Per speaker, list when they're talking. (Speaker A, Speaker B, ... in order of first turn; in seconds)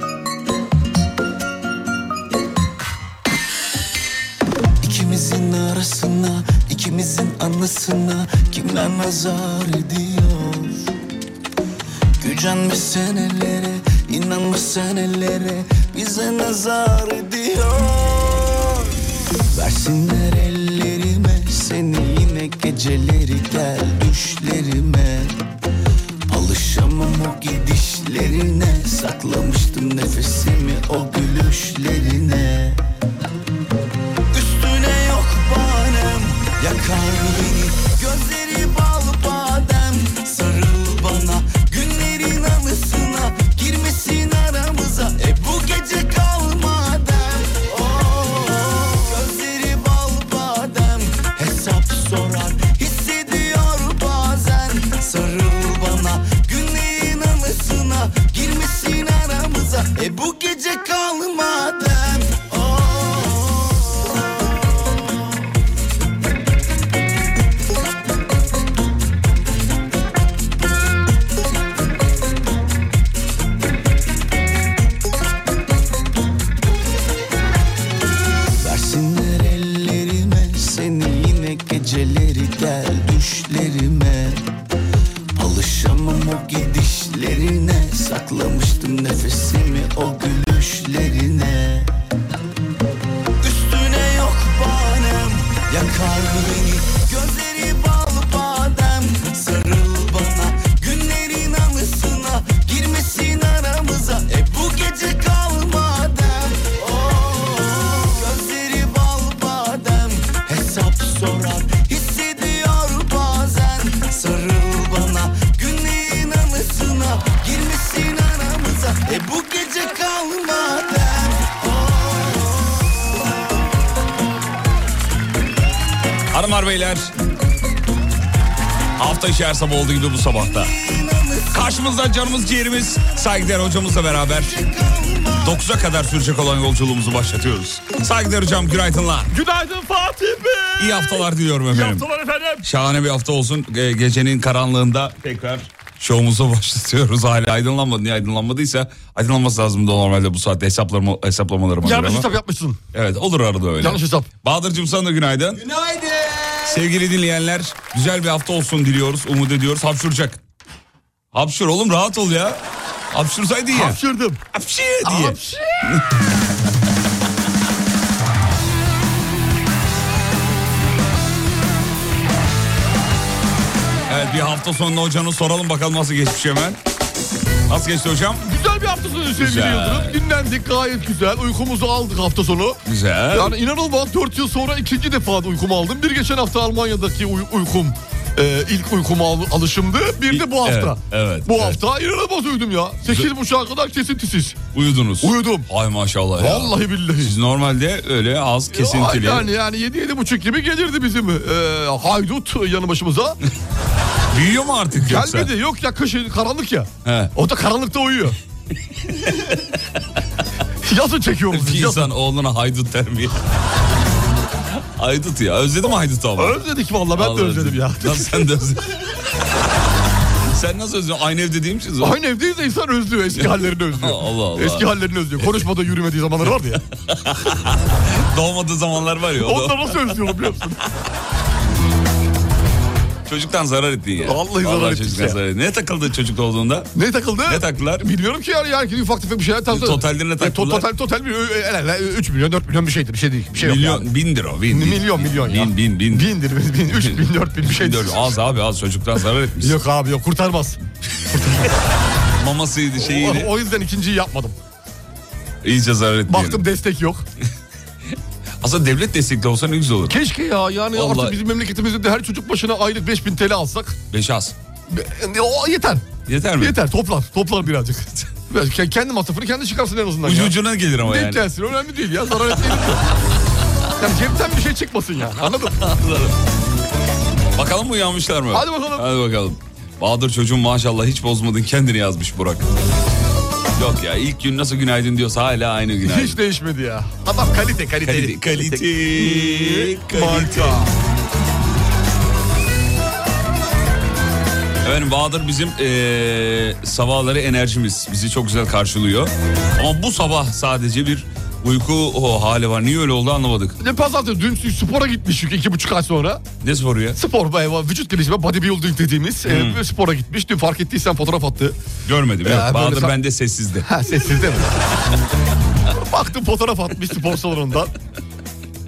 Speaker A: 4.8-10.9, 12.2-18.9, 19.5-25.4, 26.3-32.8, 34.3-64.2, 78.6-84.4, 85.3-92.0, 93.4-123.0, 130.4-131.8, 134.3-135.6
Speaker B: 126.3-127.1, 129.0-130.7, 131.5-134.6, 135.4-139.3, 140.8-142.1, 142.6-152.3, 152.9-155.7, 156.7-160.4, 161.3-164.0, 164.5-166.1, 174.1-176.8, 177.7-178.5, 179.4-180.2, 182.8-183.6, 190.3-191.8, 193.1-193.3, 194.7-199.5, 204.3-205.5, 207.1-207.3, 211.5-213.4, 214.8-216.6, 217.1-218.9, 220.5-222.2, 223.3-225.6, 226.9-230.4, 233.3-236.9, 237.5-238.1, 239.7-240.9, 243.5-246.3, 246.9-249.8, 252.4-253.5, 255.6-256.7, 258.6-260.2, 260.9-261.4, 264.1-264.6, 266.3-266.8, 270.2-271.5, 272.7-273.0, 275.7-276.4, 277.6-282.7, 283.8-286.4, 288.0-290.9, 294.8-303.8, 306.6-307.2, 309.4-309.9, 312.1-313.9
Speaker C: 139.3-142.6, 151.8-152.8, 153.8-154.3, 155.7-156.6, 163.7-164.4, 165.0-165.8, 178.4-182.8, 183.3-194.6, 195.2-195.7, 196.4-197.3, 198.7-203.4, 204.9-208.4, 210.8-212.1, 216.4-218.6, 222.0-226.8, 229.4-230.8, 234.2-235.4, 236.9-244.1, 244.7-248.4, 249.6-250.8, 251.3-251.7, 253.0-254.6, 256.3-257.2, 260.1-264.0, 264.9-273.1, 274.0-275.8, 278.5-279.1, 286.0-290.9, 303.8-306.4, 307.2-311.8, 312.4-313.2, 313.9-314.8, 315.9-317.9